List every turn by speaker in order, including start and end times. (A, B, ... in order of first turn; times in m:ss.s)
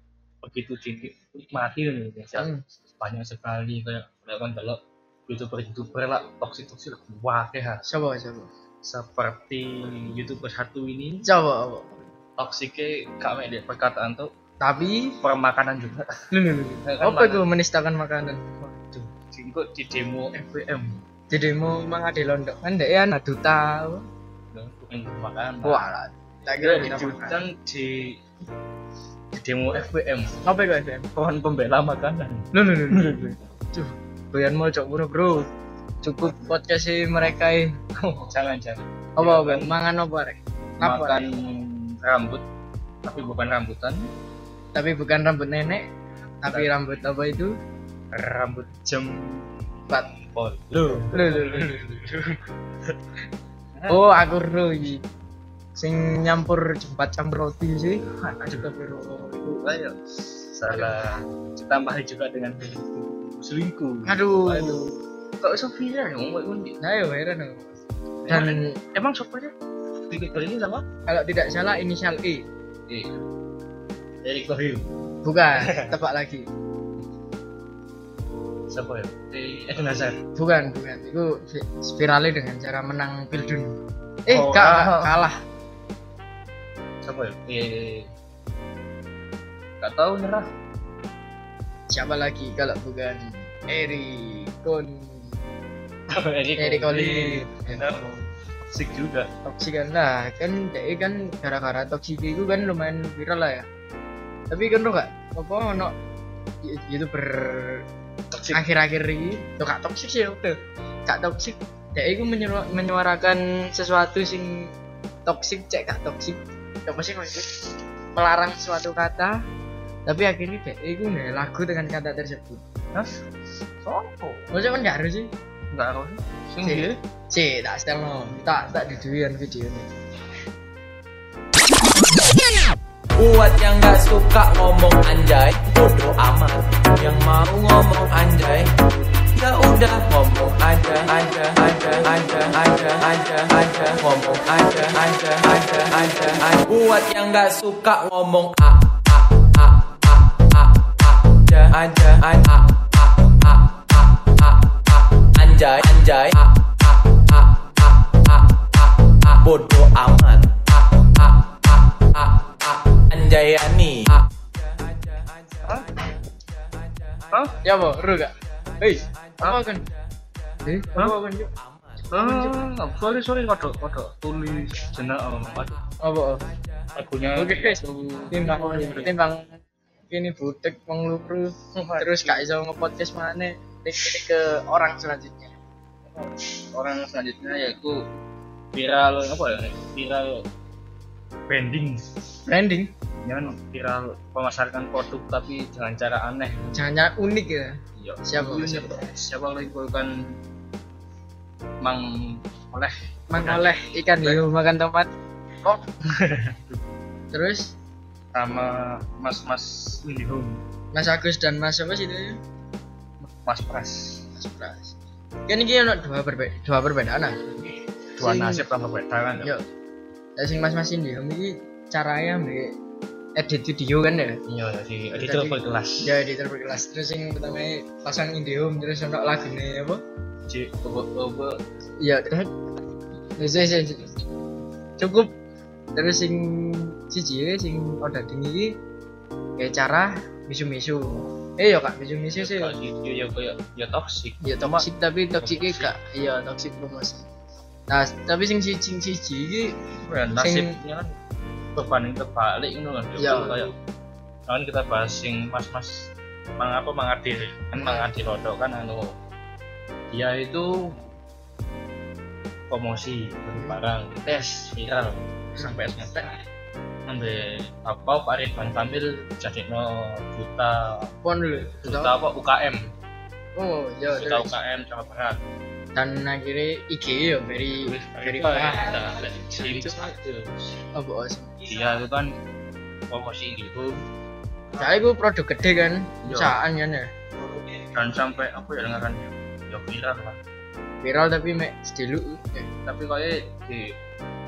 0:00.4-0:07.8 A
0:02.4-0:02.6 B
0:07.8-0:08.5 B
0:08.8-0:11.2 A
0:11.2-0:11.9 B
0:12.4-0:14.3 A
0:14.6-0:15.2 B
0:15.2-0:16.3 A
0:16.3-0:18.6 B
0:16.8-0:17.4 A
0:18.7-0:21.0 A
0:21.3-0:24.0 B
0:24.5-0:25.9 A
0:25.6-0:27.4 B
0:26.6-0:28.2 A
0:29.3-0:30.4 A
0:30.4-0:31.1 B
0:31.1-0:33.3 A
0:32.5-0:35.5 B
0:36.0-0:37.8 B
0:38.0-0:39.8 A
0:39.2-0:41.2 B
0:40.8-0:42.4 A
0:43.0-0:44.1 A
0:44.7-0:45.8 B
0:46.4-0:47.5 B
0:48.1-0:49.5 A
0:50.3-0:53.0 A
0:50.9-0:51.8 B
0:53.8-0:54.0 A
0:53.9-0:55.0 B
0:55.8-0:59.6 B
0:58.2-0:58.6 A
0:59.6-1:00.0 A
1:00.5-1:06.8 A
1:00.7-1:01.0 B
1:04.0-1:04.9 B
1:06.8-1:07.7 B
1:08.2-1:09.5 A
1:08.3-1:08.8 B
1:10.1-1:10.8 A
1:11.1-1:12.4 B
1:12.9-1:13.2 A
1:14.2-1:14.9 A
1:15.2-1:16.5 B
1:15.5-1:15.9 A
1:18.7-1:20.2 A
1:20.4-1:25.4 B
1:24.3-1:25.2 A
1:27.0-1:28.1 A
1:29.8-1:30.5 A
1:31.9-1:35.4 B
1:36.1-1:38.1 A
1:36.6-1:38.1 B
1:38.7-1:39.3 A
1:39.4-1:43.7 B
1:44.5-1:45.9 B
1:46.6-1:47.8 B
1:48.3-1:48.6 A
1:48.5-1:54.7 B
1:55.2-1:57.5 B
1:58.1-1:59.4 B
2:00.1-2:02.6 B
2:03.8-2:04.4 A
2:04.5-2:05.3 B
2:05.7-2:07.0 A
2:06.6-2:09.9 B
2:13.2-2:18.7 C
2:19.3-2:44.2 C
2:47.3-2:47.6 A
2:47.6-2:49.8 B
2:50.6-2:51.5 B
2:52.1-2:52.6 B
2:52.1-2:55.8 A
2:56.0-2:56.4 B
2:56.9-2:59.1 A
2:57.3-3:05.5 B
3:01.7-3:02.4 A
3:06.1-3:08.0 A
3:08.7-3:10.4 A
3:11.5-3:12.1 A
3:12.4-3:12.9 B
3:13.2-3:16.8 A
3:16.7-3:19.0 B
3:18.0-3:20.4 A
3:21.8-3:24.4 A
3:23.3-3:25.1 B
3:26.0-3:26.8 A
3:27.3-3:27.7 B
3:28.3-3:30.6 A
3:30.9-3:32.4 B
3:33.4-3:34.2 A
3:34.4-3:34.9 B
3:35.5-3:37.6 B
3:38.2-3:38.6 B
3:38.2-3:39.5 A
3:40.4-3:42.7 B
3:43.4-3:44.4 B
3:44.5-3:46.2 A
3:45.2-3:50.0 B
3:50.5-3:51.6 A
3:52.0-3:52.5 B
3:53.4-3:54.1 B
3:55.0-3:55.3 B
3:55.9-3:58.8 B
3:59.6-4:02.7 B
4:02.3-4:05.9 A
4:04.4-4:07.3 B
4:07.9-4:09.9 B
4:10.0-4:11.1 A
4:10.4-4:10.8 B
4:11.8-4:13.7 A
4:13.2-4:13.6 B
4:14.5-4:19.1 A
4:17.7-4:18.1 B
4:20.1-4:21.0 A
4:22.7-4:26.4 A
4:27.1-4:31.1 A
4:31.2-4:32.1 B
4:31.8-4:32.9 A
4:33.6-4:34.5 B
4:34.1-4:35.4 A
4:35.9-4:39.0 B
4:37.8-4:40.7 A
4:39.5-4:40.0 B
4:40.9-4:41.6 B
4:41.6-4:42.4 A
4:43.1-4:44.0 A
4:44.8-4:47.1 B
4:46.2-4:46.6 A
4:47.8-4:50.4 A
4:51.0-4:52.7 B
4:52.8-4:54.0 A